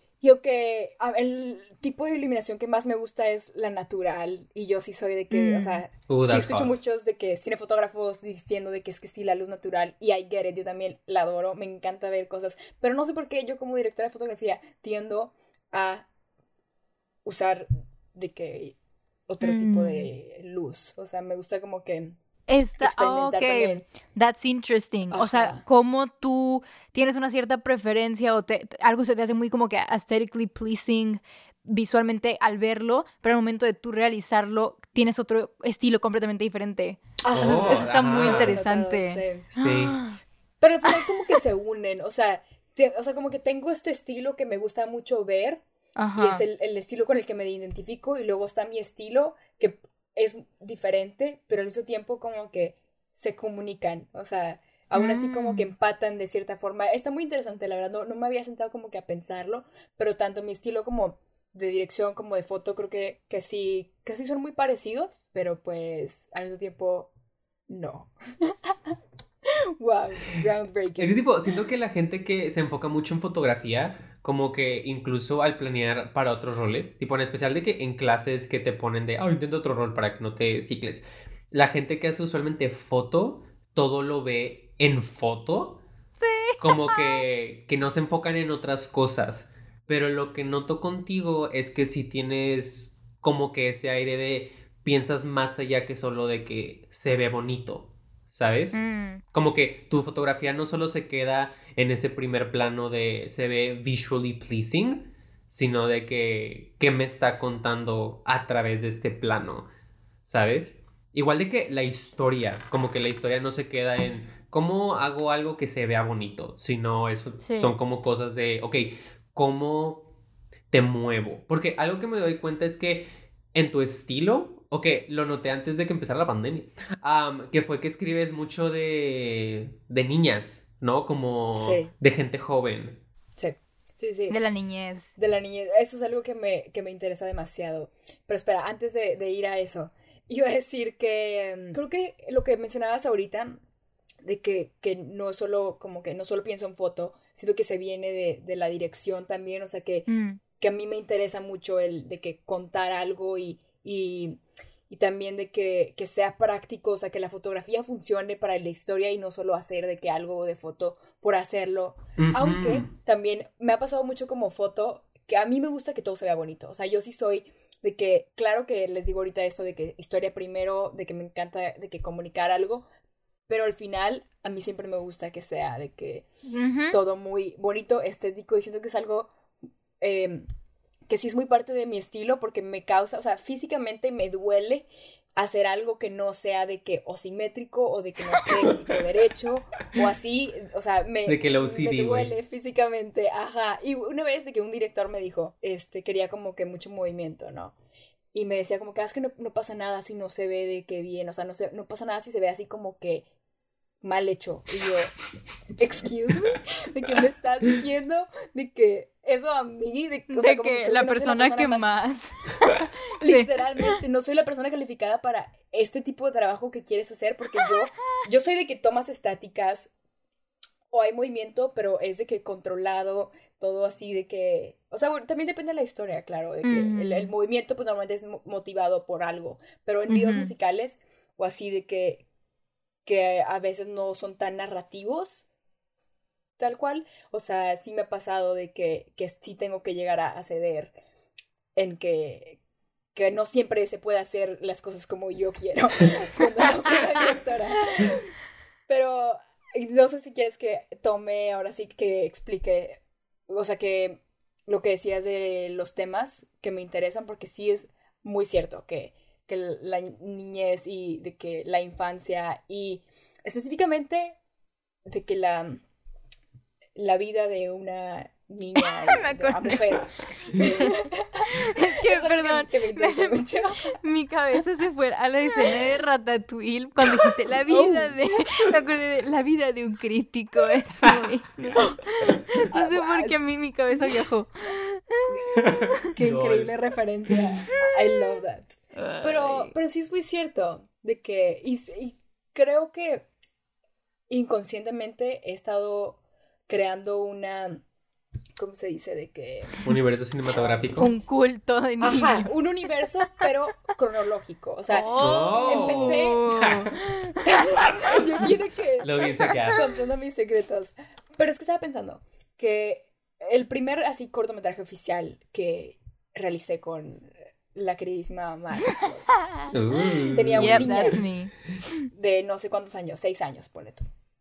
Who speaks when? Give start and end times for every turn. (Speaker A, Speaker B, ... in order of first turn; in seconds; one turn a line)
Speaker A: 0.2-16.1
Speaker B: 5.3-5.8
Speaker C: 6.1-6.8
Speaker A: 17.2-18.8
Speaker A: 19.3-22.2
Speaker B: 19.4-20.1
Speaker B: 22.5-40.2
Speaker A: 22.8-23.9
Speaker A: 25.1-25.6
Speaker A: 37.2-39.5
Speaker C: 37.3-38.6
Speaker C: 39.6-40.0
Speaker A: 40.6-45.6
Speaker B: 46.0-46.4
Speaker A: 46.2-67.1
Speaker B: 55.0-55.7
Speaker A: 67.7-68.8
Speaker A: 69.8-71.2
Speaker C: 71.0-85.8
Speaker B: 86.2-87.2
Speaker C: 86.6-98.8
Speaker B: 98.7-99.2
Speaker C: 99.3-109.7
Speaker C: 110.3-120.0
Speaker B: 117.4-117.7
Speaker C: 120.7-133.0
Speaker A: 131.6-131.9
Speaker A: 133.4-134.4
Speaker B: 134.3-135.2
Speaker A: 135.2-143.6
Speaker A: 144.2-150.1
Speaker B: 150.1-150.4
Speaker A: 150.6-172.8
Speaker C: 162.2-162.9
Speaker A: 173.5-176.3
Speaker B: 176.5-177.0
Speaker A: 176.9-179.3
Speaker A: 180.0-180.5
Speaker A: 181.1-197.8
Speaker C: 191.3-192.3
Speaker A: 198.3-203.3
Speaker A: 204.0-205.2
Speaker A: 205.8-211.9
Speaker B: 210.3-213.9
Speaker A: 213.2-219.9
Speaker A: 220.9-232.2
Speaker B: 226.6-227.3
Speaker B: 230.1-230.5
Speaker A: 233.1-235.4
Speaker A: 236.6-240.9
Speaker A: 241.8-242.6
Speaker A: 243.2-248.3
Speaker A: 248.9-264.4
Speaker A: 265.1-265.8
Speaker A: 267.0-274.0
Speaker B: 269.1-269.8
Speaker B: 270.6-270.9
Speaker B: 271.5-286.0
Speaker A: 277.2-278.2
Speaker A: 281.8-283.4
Speaker A: 285.3-293.3
Speaker C: 285.6-286.7
Speaker B: 288.9-289.8
Speaker A: 294.3-297.8
Speaker A: 298.6-299.8
Speaker C: 299.8-301.1
Speaker B: 301.0-302.5
Speaker A: 302.0-306.7
Speaker B: 304.9-307.4
Speaker C: 305.2-306.9
Speaker A: 307.4-319.3
Speaker C: 309.0-309.8
Speaker C: 319.7-321.2
Speaker A: 320.3-321.2
Speaker B: 320.6-322.0
Speaker A: 322.1-324.0